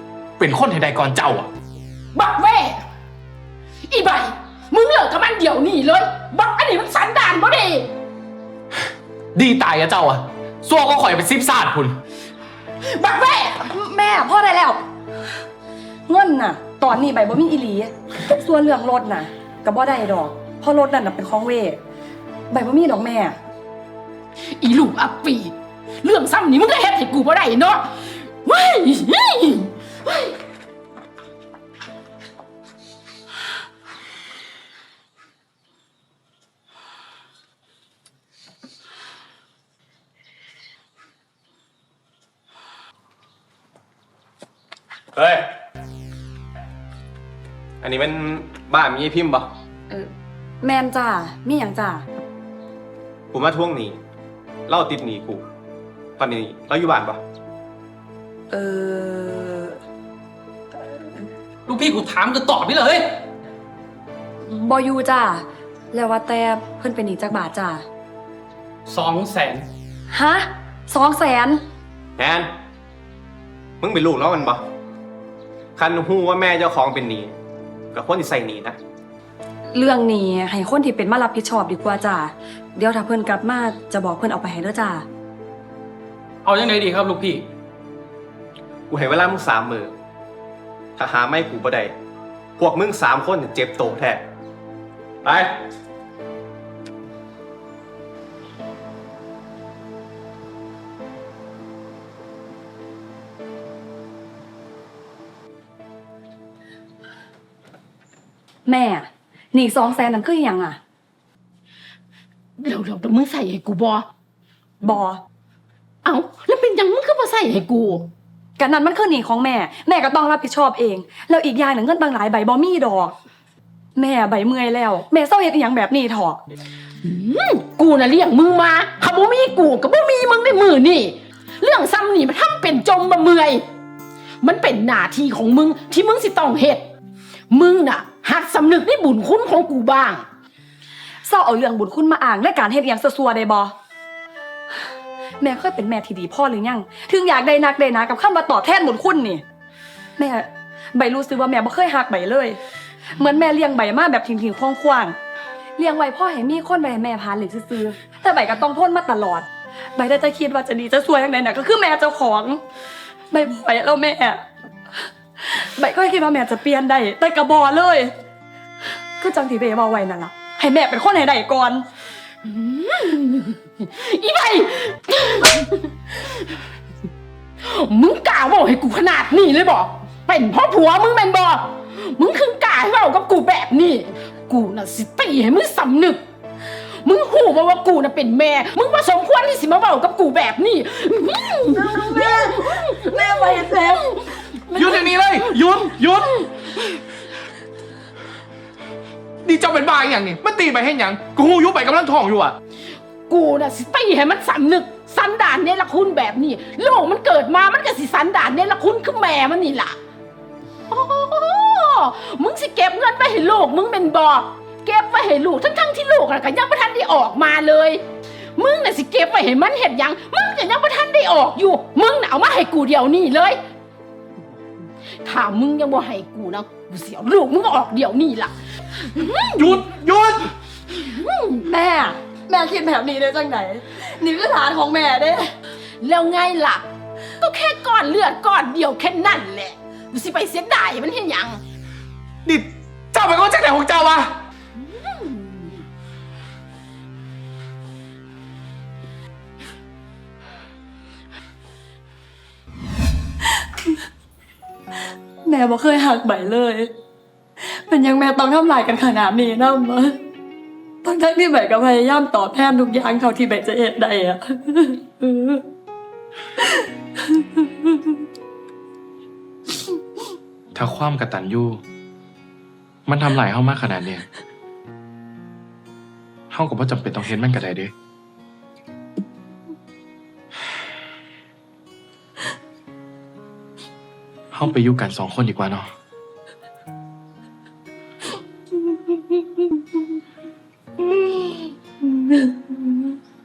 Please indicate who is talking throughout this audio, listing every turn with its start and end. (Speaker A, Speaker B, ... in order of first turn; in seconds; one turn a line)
Speaker A: 0.4-1.5
Speaker B: 2.1-2.8
Speaker B: 3.9-7.9
Speaker A: 9.3-12.0
Speaker B: 12.8-13.7
Speaker C: 13.7-14.8
Speaker C: 16.1-21.8
Speaker C: 22.5-23.4
Speaker B: 24.6-30.4
Speaker D: 45.1-45.5
Speaker D: 47.8-49.5
Speaker C: 49.9-52.1
Speaker D: 53.3-54.0
Speaker D: 54.7-55.5
Speaker D: 56.2-57.2
Speaker C: 58.5-59.8
Speaker E: 61.7-63.2
Speaker C: 64.5-67.8
Speaker E: 68.9-69.7
Speaker C: 70.1-71.6
Speaker D: 72.2-72.5
Speaker D: 73.8-74.7
Speaker D: 75.8-77.4
Speaker D: 77.9-78.8
Speaker C: 79.7-85.0
Speaker E: 86.5-87.5
Speaker D: 88.9-90.0
Speaker D: 91.0-91.9
Speaker D: 92.6-94.3
Speaker D: 95.2-95.6
Speaker C: 108.7-110.8
Speaker B: 112.6-114.1
Speaker C: 114.8-115.2
Speaker B: 116.0-118.1
Speaker C: 118.6-123.2
Speaker C: 124.0-126.4
Speaker B: 127.0-133.6
Speaker B: 134.4-136.9
Speaker B: 137.5-140.2
Speaker C: 141.2-143.7
Speaker C: 145.4-149.4
Speaker C: 150.2-152.6
Speaker C: 153.2-155.1
Speaker C: 155.8-162.6
Speaker C: 163.3-164.4
Speaker C: 165.4-168.1
Speaker C: 169.2-171.9
Speaker B: 172.4-176.4
Speaker B: 177.6-186.2
Speaker B: 186.9-194.4
Speaker C: 191.8-195.1
Speaker A: 194.7-196.3
Speaker A: 199.4-202.6
Speaker B: 203.3-210.0
Speaker B: 210.9-218.1
Speaker B: 218.6-223.6
Speaker B: 225.2-229.5
Speaker A: 229.5-230.5
Speaker B: 230.9-231.5
Speaker C: 231.6-235.5
Speaker B: 236.0-236.8
Speaker B: 237.4-241.6
Speaker A: 242.4-244.4
Speaker B: 244.8-245.8
Speaker C: 255.4-256.9
Speaker C: 257.7-260.2
Speaker C: 261.0-265.7
Speaker C: 266.6-268.0
Speaker A: 270.8-271.8
Speaker A: 273.1-274.3
Speaker A: 276.5-277.9
Speaker A: 284.5-285.9
Speaker C: 292.1-292.6